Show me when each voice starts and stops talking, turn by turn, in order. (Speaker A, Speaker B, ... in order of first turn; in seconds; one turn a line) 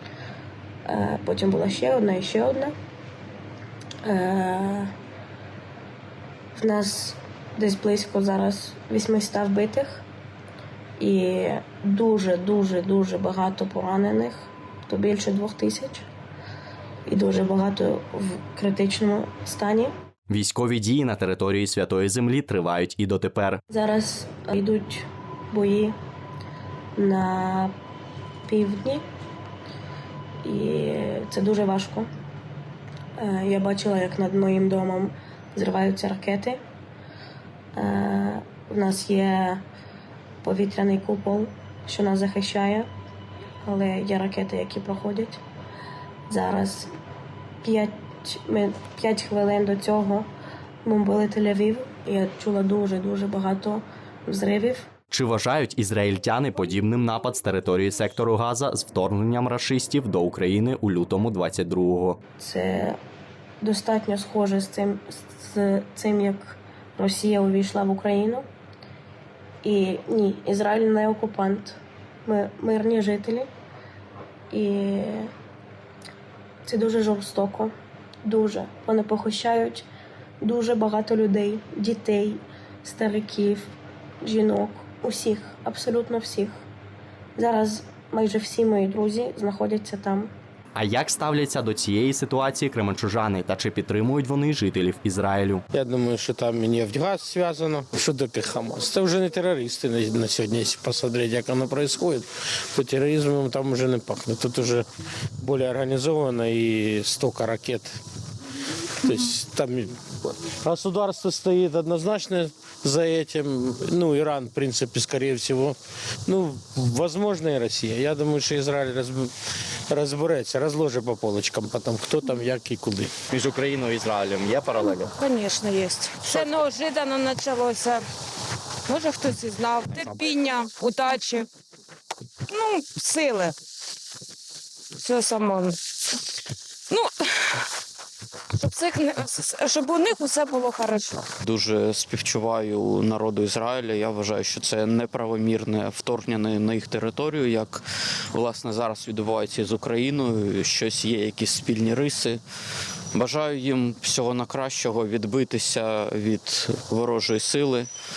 Speaker A: 0.8-2.7
Speaker A: 4.0-4.9
Speaker A: 6.6-10.0
Speaker A: 11.0-16.1
Speaker A: 17.1-19.9
Speaker B: 20.3-23.6
Speaker A: 23.7-25.9
Speaker A: 26.9-27.7
Speaker A: 28.5-29.0
Speaker A: 30.4-32.1
Speaker A: 33.2-36.6
Speaker A: 37.7-39.6
Speaker A: 40.4-42.9
Speaker A: 43.6-45.4
Speaker A: 46.3-46.9
Speaker A: 47.6-50.3
Speaker A: 50.8-54.9
Speaker B: 55.1-62.2
Speaker A: 62.4-63.0
Speaker A: 63.6-68.4
Speaker A: 69.6-73.5
Speaker A: 74.5-75.3
Speaker A: 76.6-77.7
Speaker A: 78.2-79.8
Speaker A: 80.4-86.6
Speaker A: 87.3-90.3
Speaker B: 90.7-95.6
Speaker C: 95.7-104.9
Speaker C: 105.4-108.0
Speaker C: 109.0-119.3
Speaker C: 119.9-123.1
Speaker B: 123.3-125.1
Speaker D: 125.0-128.0
Speaker D: 128.8-131.5
Speaker D: 132.5-133.6
Speaker D: 134.9-136.2
Speaker D: 136.9-137.7
Speaker D: 138.5-141.2
Speaker E: 141.4-152.4
Speaker E: 153.1-157.9